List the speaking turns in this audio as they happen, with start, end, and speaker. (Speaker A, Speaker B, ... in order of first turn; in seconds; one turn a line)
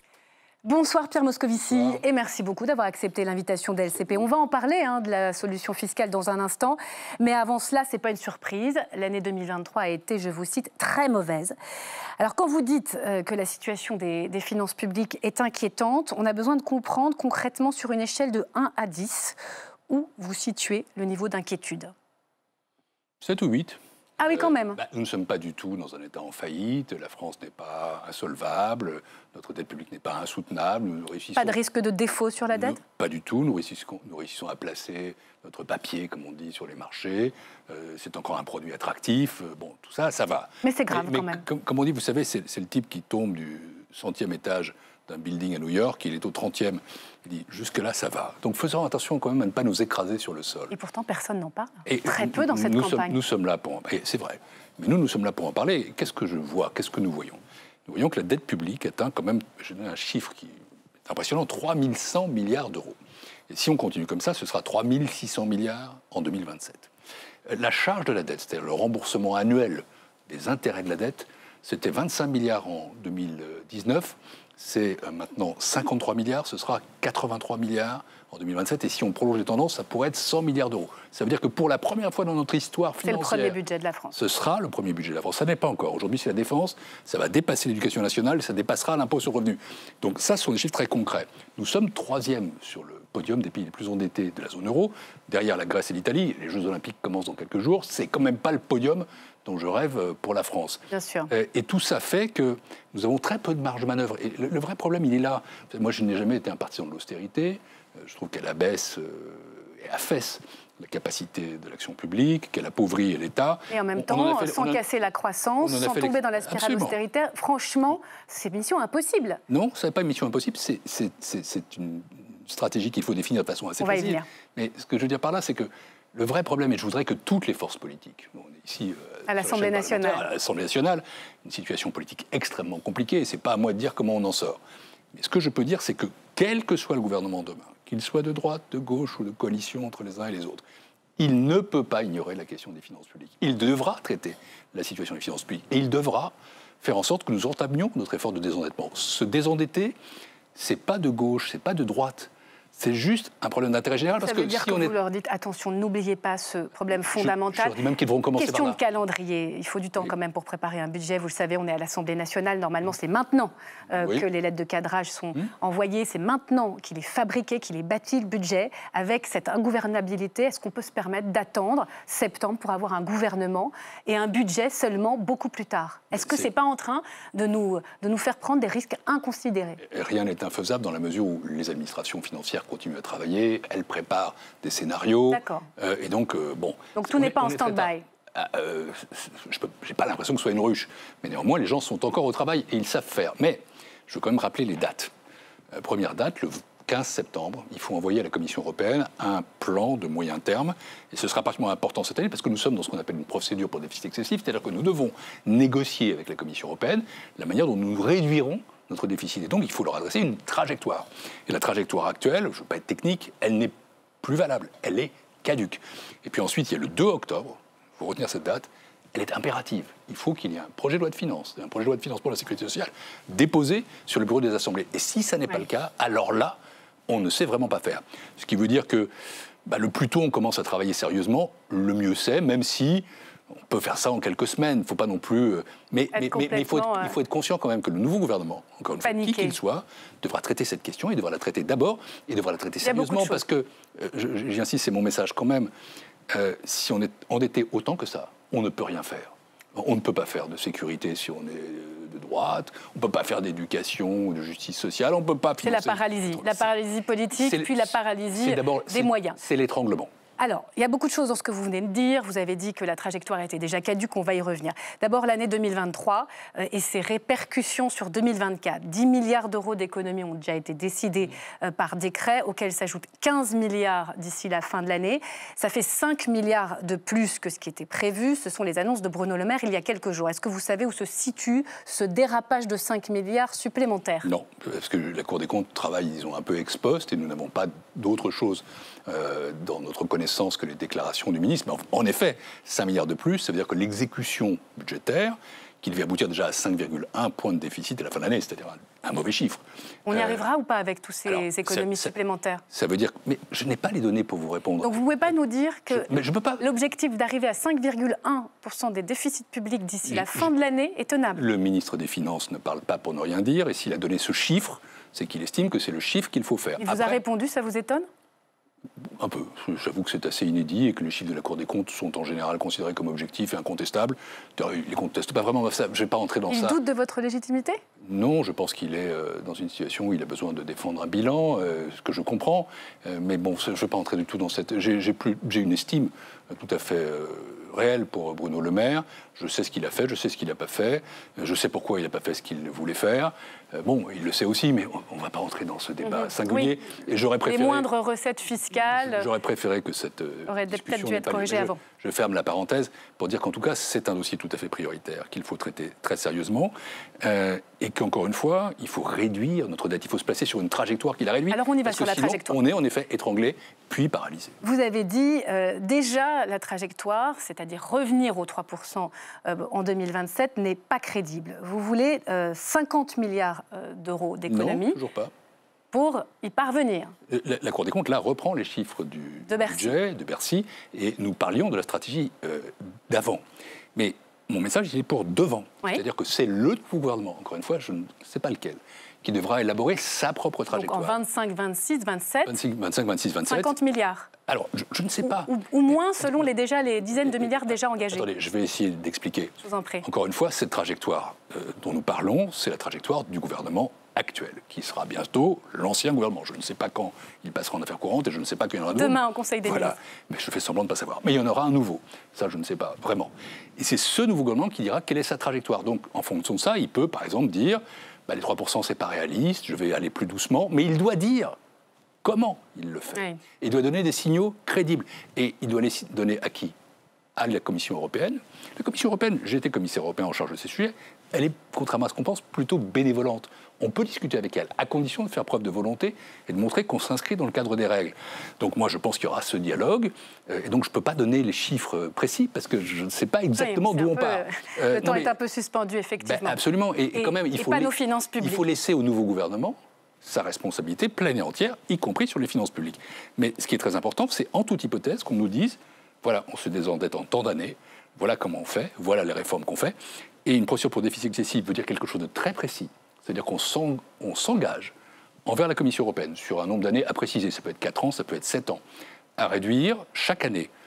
Speaker A: 0.6-11.5
Speaker B: 1.7-2.0
Speaker A: 12.2-19.4
Speaker A: 19.9-21.9
Speaker B: 23.2-31.6
Speaker A: 24.2-24.8
Speaker A: 31.4-32.8
Speaker B: 32.5-50.7
Speaker A: 40.6-41.4
Speaker A: 50.7-53.2
Speaker B: 51.8-63.0
Speaker B: 63.5-66.9
Speaker B: 67.5-83.6
Speaker A: 83.0-84.1
Speaker B: 84.1-114.8
Speaker A: 100.9-101.3
Speaker A: 113.7-119.4
Speaker B: 115.6-117.0
Speaker B: 119.5-134.6
Speaker A: 123.8-124.2
Speaker A: 129.3-130.2
Speaker B: 135.1-140.6
Speaker B: 141.2-149.9
Speaker B: 150.5-154.9
Speaker A: 154.2-157.8
Speaker B: 157.1-158.8
Speaker A: 158.3-179.8
Speaker B: 164.0-164.3
Speaker B: 176.1-176.5
Speaker B: 179.8-195.1
Speaker A: 185.3-185.7
Speaker A: 186.9-188.0
Speaker B: 195.7-229.1
Speaker B: 229.7-233.1
Speaker B: 233.7-245.7
Speaker A: 236.1-237.1
Speaker A: 239.0-239.5
Speaker A: 242.8-243.4
Speaker B: 246.3-256.7
Speaker A: 255.6-259.4
Speaker B: 257.4-260.1
Speaker A: 260.4-284.3
Speaker B: 284.2-300.4
Speaker A: 300.1-302.6
Speaker B: 301.3-302.1
Speaker B: 302.7-305.3
Speaker A: 304.8-311.4
Speaker B: 305.9-306.6
Speaker B: 310.1-310.5
Speaker B: 311.3-317.2
Speaker A: 316.8-318.1
Speaker B: 319.2-326.8
Speaker A: 326.5-327.8
Speaker B: 328.0-347.9
Speaker A: 346.0-346.7
Speaker A: 347.4-349.3
Speaker B: 348.9-364.6
Speaker A: 350.5-351.8
Speaker A: 361.5-362.6
Speaker A: 364.6-375.0
Speaker B: 374.5-375.3
Speaker A: 375.9-377.1
Speaker B: 377.3-383.4
Speaker A: 379.5-379.9
Speaker B: 383.9-391.2
Speaker A: 390.7-392.6
Speaker B: 392.4-393.7
Speaker A: 393.5-394.3
Speaker B: 394.5-396.4
Speaker A: 395.2-398.3
Speaker B: 397.2-421.6
Speaker A: 399.6-400.1
Speaker A: 408.9-410.0
Speaker B: 422.2-426.7
Speaker A: 423.1-423.4
Speaker B: 427.4-445.3
Speaker A: 443.5-446.6
Speaker B: 446.2-464.9
Speaker A: 447.1-448.6
Speaker B: 465.4-468.8
Speaker B: 469.4-470.7